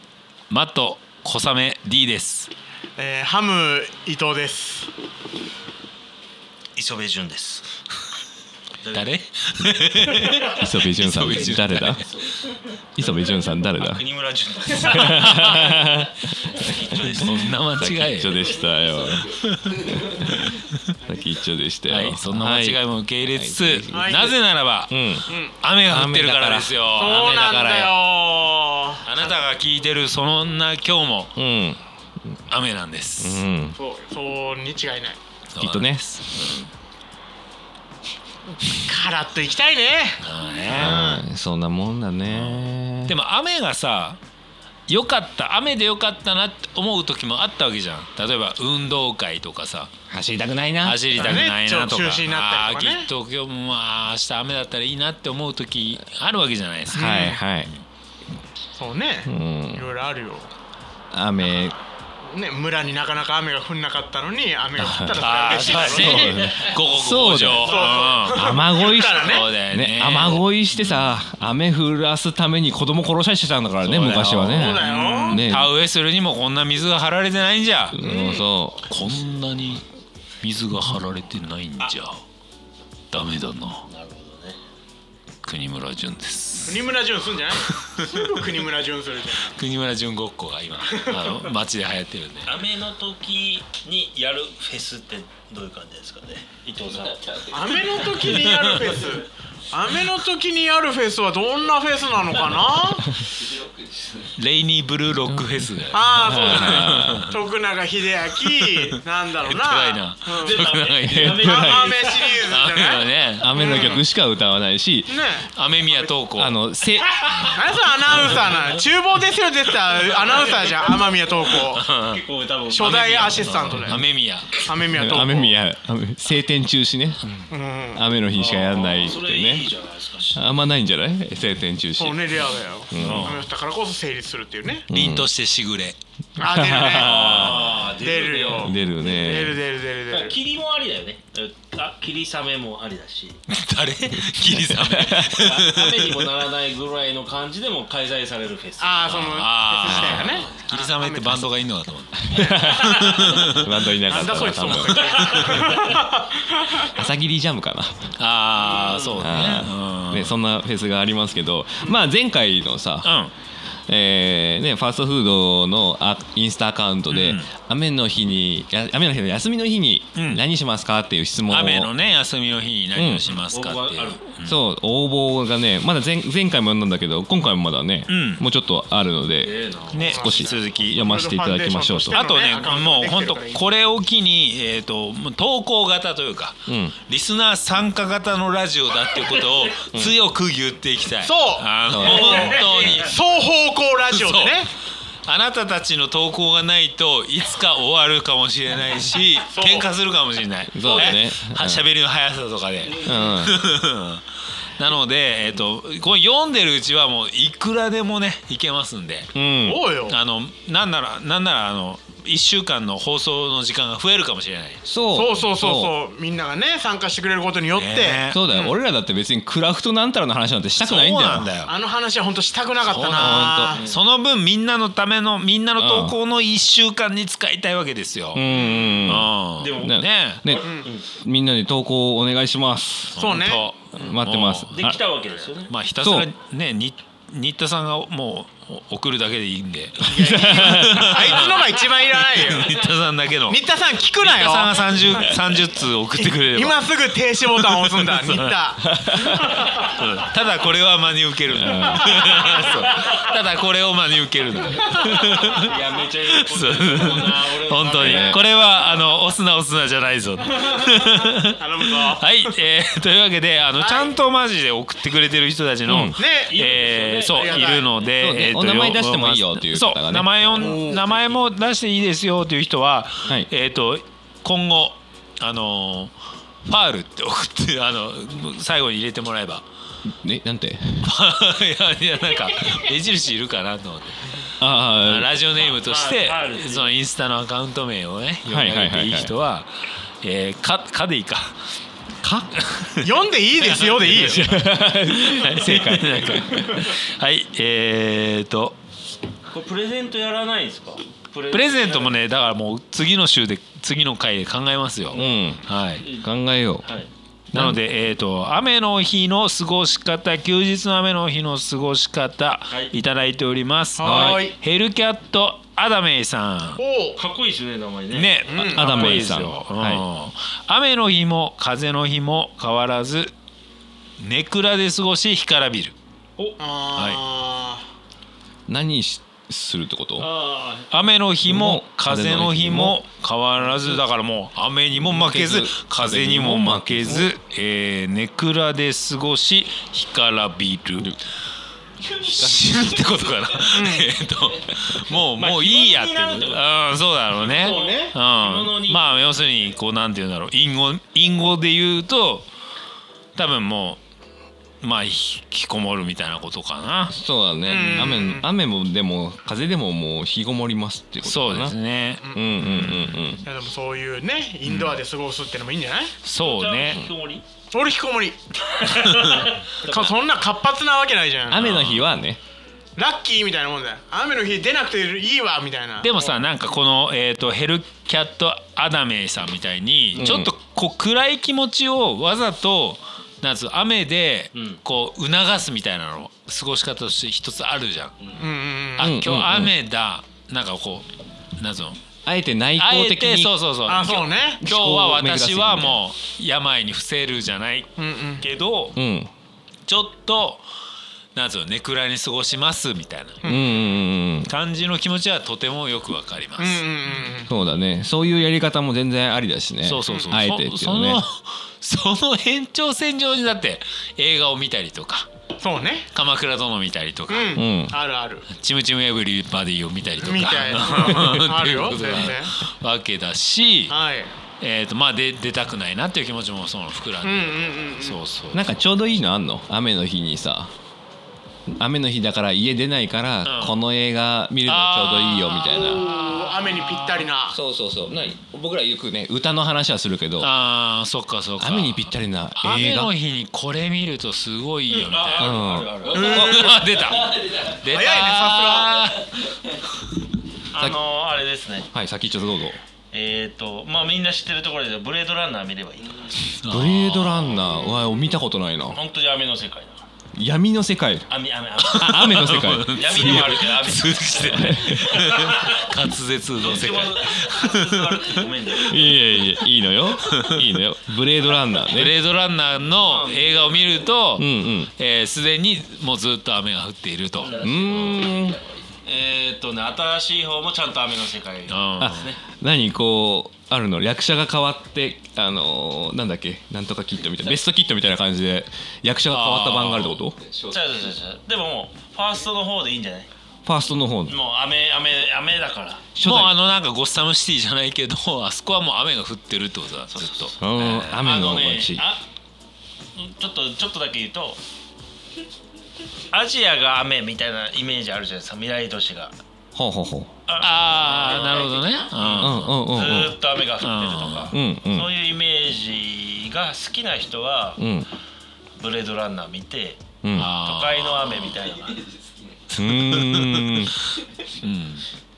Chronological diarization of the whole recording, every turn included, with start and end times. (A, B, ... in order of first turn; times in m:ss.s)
0:00.5-0:02.5 A
0:03.0-0:04.9 B
0:06.8-0:07.7 C
0:08.8-0:09.1 C
0:08.9-0:12.1 A
0:10.6-0:12.0 D
0:13.0-0:14.0 D
0:13.8-0:15.4 C
0:14.8-0:19.3 D
0:15.1-0:15.8 A
0:16.5-0:17.5 C
0:17.1-0:18.4 A
0:19.2-0:20.8 A
0:20.2-0:20.5 D
0:21.0-0:22.8 D
0:21.9-0:27.4 A
0:23.3-0:24.3 D
0:23.9-0:24.3 B
0:24.9-0:25.3 D
0:25.3-0:25.5 B
0:25.8-0:27.9 D
0:26.9-0:29.0 B
0:29.0-0:31.3 A
0:31.4-0:31.8 D
0:32.5-0:33.4 A
0:33.2-0:33.8 D
0:33.8-0:35.2 B
0:35.5-0:36.7 A
0:35.6-0:36.5 D
0:38.6-0:41.2 B
0:40.2-0:41.1 A
0:40.7-0:43.2 D
0:42.2-0:44.2 A
0:44.9-0:49.9 A
0:50.1-0:51.0 D
0:50.8-0:57.8 A
0:51.1-0:53.1 B
0:56.9-0:57.4 B
0:56.9-0:57.7 D
0:58.8-1:00.5 B
0:59.2-0:59.9 D
1:01.1-1:01.8 D
1:01.4-1:01.7 B
1:02.2-1:06.5 B
1:04.8-1:07.8 D
1:05.2-1:11.1 A
1:07.6-1:09.5 B
1:08.3-1:15.7 D
1:13.8-1:18.0 A
1:14.5-1:15.4 B
1:17.9-1:18.9 D
1:18.0-1:18.4 B
1:18.8-1:19.8 A
1:20.4-1:22.2 A
1:23.1-1:23.9 A
1:23.9-1:24.6 C
1:25.4-1:26.9 A
1:26.6-1:29.5 B
1:27.5-1:28.1 A
1:29.4-1:32.6 A
1:30.9-1:31.5 B
1:32.4-1:38.1 C
1:37.5-1:43.2 B
1:38.3-1:38.9 A
1:43.5-1:44.1 C
1:44.4-1:47.4 A
1:45.3-1:47.2 D
1:45.9-1:50.6 B
1:48.6-1:51.4 A
1:50.4-1:52.5 C
1:51.1-1:51.9 D
1:51.4-1:54.0 B
1:52.4-1:54.0 A
1:53.4-1:55.2 D
1:55.1-1:56.1 B
1:55.5-1:56.6 A
1:56.4-1:57.3 D
1:57.2-1:57.6 A
1:57.4-2:01.9 B
2:01.6-2:03.7 C
2:01.7-2:02.2 A
2:02.7-2:05.6 B
2:02.8-2:04.6 A
2:04.9-2:07.2 D
2:07.5-2:08.0 B
2:07.9-2:09.7 D
2:08.3-2:10.5 C
2:10.3-2:12.4 D
2:12.0-2:14.8 B
2:12.9-2:13.4 D
2:13.0-2:13.4 A
2:13.0-2:13.2 C
2:14.9-2:15.3 D
2:14.9-2:16.0 A
2:16.4-2:20.4 B
2:16.4-2:17.7 D
2:16.9-2:23.4 C
2:17.4-2:17.8 A
2:18.6-2:19.6 D
2:23.5-2:26.3 A
2:24.3-2:25.4 D
2:25.2-2:29.3 C
2:28.8-2:31.5 B
2:29.1-2:33.8 A
2:32.3-2:35.6 D
2:32.6-2:36.9 B
2:35.2-2:35.6 A
2:36.9-2:38.1 D
2:38.2-2:40.4 A
2:38.8-2:39.2 C
2:39.2-2:43.1 D
2:43.0-2:43.3 A
2:43.9-2:51.9 D
2:47.1-2:47.5 A
2:50.2-2:50.4 A
2:51.5-2:54.6 A
2:52.9-2:53.2 D
2:53.5-2:54.2 C
2:54.4-3:02.2 D
2:58.1-2:58.4 A
2:59.4-3:00.1 C
2:59.9-3:01.0 A
3:00.0-3:03.7 B
3:02.1-3:13.2 A
3:06.7-3:07.0 D
3:11.2-3:14.7 B
3:11.9-3:12.6 D
3:12.2-3:12.9 C
3:14.1-3:14.7 A
3:15.2-3:24.2 A
3:19.5-3:19.9 B
3:20.7-3:21.8 D
3:22.9-3:23.2 C
3:23.0-3:23.6 D
3:24.8-3:29.3 A
3:29.3-3:29.8 D
3:29.6-3:30.2 B
3:30.1-3:34.8 A
3:34.8-3:35.9 D
3:35.1-3:38.8 B
3:37.7-3:38.4 A
3:38.3-3:41.5 D
3:40.8-3:41.7 A
3:41.6-3:43.8 B
3:42.8-3:48.5 A
3:43.0-3:43.8 D
3:43.7-3:44.0 C
3:45.8-3:46.1 D
3:48.3-3:53.3 D
3:48.5-3:49.0 B
3:49.0-3:50.4 A
3:49.6-3:51.1 C
3:50.6-3:50.9 B
3:53.2-3:53.6 B
3:53.2-3:54.8 A
3:53.9-3:55.0 D
3:54.7-3:55.7 C
3:55.4-4:03.6 A
3:56.0-3:56.3 D
4:00.0-4:02.8 B
4:00.3-4:01.0 D
4:03.5-4:05.3 B
4:04.2-4:06.9 A
4:06.2-4:09.9 B
4:07.6-4:08.6 A
4:08.9-4:09.5 D
4:09.6-4:15.7 A
4:11.6-4:12.1 D
4:11.8-4:13.1 B
4:14.8-4:15.4 B
4:15.6-4:18.4 C
4:16.4-4:36.1 A
4:17.7-4:18.4 B
4:18.0-4:18.4 D
4:20.5-4:22.5 B
4:23.8-4:24.1 B
4:25.9-4:26.2 D
4:26.1-4:26.6 B
4:26.4-4:27.9 C
4:27.3-4:27.9 B
4:28.2-4:30.4 D
4:30.6-4:31.0 B
4:36.6-4:39.6 A
4:40.1-4:41.1 D
4:41.0-4:44.5 A
4:44.6-4:45.3 D
4:45.0-4:51.6 A
4:45.6-4:46.9 C
4:48.4-4:49.3 D
4:52.6-4:53.0 A
4:53.0-4:54.5 B
4:53.6-4:54.6 A
4:54.1-4:56.7 D
4:55.1-4:58.8 A
4:59.5-5:02.2 C
5:01.5-5:06.1 A
5:05.1-5:05.6 D
5:06.2-5:06.9 D
5:06.8-5:07.1 C
5:07.5-5:07.8 D
5:07.5-5:16.8 A
5:14.0-5:14.6 B
5:14.0-5:14.4 D
5:16.8-5:17.2 B
5:17.2-5:18.3 C
5:18.1-5:23.3 A
5:18.5-5:19.2 B
5:18.7-5:20.0 D
5:24.2-5:25.9 A
5:26.6-5:27.8 B
5:26.9-5:27.2 A
5:28.7-5:30.3 D
5:30.2-5:30.9 C
5:30.9-5:41.1 A
5:31.4-5:33.0 D
5:34.9-5:37.3 D
5:42.1-5:52.5 A
5:42.2-5:43.0 D
5:43.7-5:44.1 B
5:45.4-5:46.7 C
5:47.3-5:49.2 C
5:47.6-5:48.1 B
5:53.4-5:54.0 A
5:54.8-5:57.2 A
5:57.1-6:01.7 D
5:57.6-5:58.4 B
6:01.2-6:03.2 A
6:02.2-6:02.9 B
6:02.3-6:03.4 D
6:03.4-6:06.1 B
6:04.6-6:05.0 A
6:06.2-6:07.0 A
6:06.4-6:07.4 C
6:07.7-6:11.7 B
6:09.0-6:09.4 A
6:09.2-6:10.2 C
6:11.5-6:12.4 D
6:11.5-6:12.1 A
6:13.0-6:16.1 B
6:16.0-6:28.1 A
6:16.2-6:16.5 C
6:20.1-6:20.5 D
6:24.5-6:24.8 C
6:28.4-6:29.1 B
6:29.0-6:32.0 A
6:29.0-6:29.7 D
6:32.2-6:33.5 D
6:32.8-6:37.9 A
6:33.9-6:34.6 B
6:34.6-6:36.0 D
6:38.0-6:38.4 B
6:38.4-6:39.0 A
6:38.9-6:39.3 D
6:39.8-6:40.6 A
6:41.3-6:43.4 A
6:43.4-6:43.8 B
6:43.4-6:44.5 D
6:44.4-6:46.8 A
6:46.6-6:47.5 B
6:47.5-6:51.2 D
6:49.8-6:55.3 A
6:50.1-6:50.4 B
6:55.6-6:56.1 B
6:56.1-6:57.6 A
6:57.3-6:58.5 B
6:57.6-6:57.9 D
6:58.5-7:03.9 A
7:00.2-7:02.6 B
7:03.9-7:04.3 B
7:04.6-7:08.7 A
7:07.2-7:08.2 B
7:08.5-7:10.7 D
7:11.7-7:16.1 D
7:13.4-7:13.8 A
7:14.6-7:17.3 A
7:15.8-7:17.6 B
7:17.5-7:20.5 D
7:20.4-7:25.6 A
7:21.6-7:23.1 D
7:24.9-7:26.4 C
7:25.4-7:26.6 D
7:26.1-7:26.8 B
7:26.1-7:29.5 A
7:27.8-7:29.1 B
7:30.7-7:31.9 C
7:31.9-7:32.8 D
7:33.1-7:36.5 C
7:36.5-7:37.6 A
7:36.7-7:39.0 D
7:38.9-7:40.1 C
7:40.3-7:41.3 D
7:41.3-7:45.8 C
7:41.9-7:43.0 D
7:41.9-7:48.7 A
7:44.5-7:45.2 D
7:46.6-7:49.2 C
7:48.8-7:52.1 D
7:50.2-7:50.6 A
7:51.9-7:57.5 A
7:52.9-7:54.0 C
7:54.4-7:54.9 D
7:57.4-7:58.5 C
7:57.6-7:58.6 D
7:59.0-8:02.4 C
8:01.7-8:02.3 A
8:02.0-8:10.4 D
8:09.3-8:10.2 A
8:10.6-8:13.3 C
8:13.6-8:14.3 D
8:14.3-8:16.1 C
8:16.2-8:16.6 D
8:16.2-8:21.2 A
8:20.1-8:22.2 C
8:20.6-8:22.0 D
8:23.2-8:24.6 C
8:26.3-8:29.4 C
8:29.7-8:30.3 D
8:30.5-8:37.8 C
8:30.6-8:32.7 A
8:32.4-8:33.4 D
8:33.8-8:34.5 A
8:34.5-8:35.1 D
8:37.8-8:38.1 D
8:38.8-8:40.0 C
8:40.2-8:40.5 D
8:40.4-8:41.6 A
8:40.6-8:42.3 C
8:42.8-8:44.0 D
8:42.8-8:43.9 A
8:44.4-8:45.0 A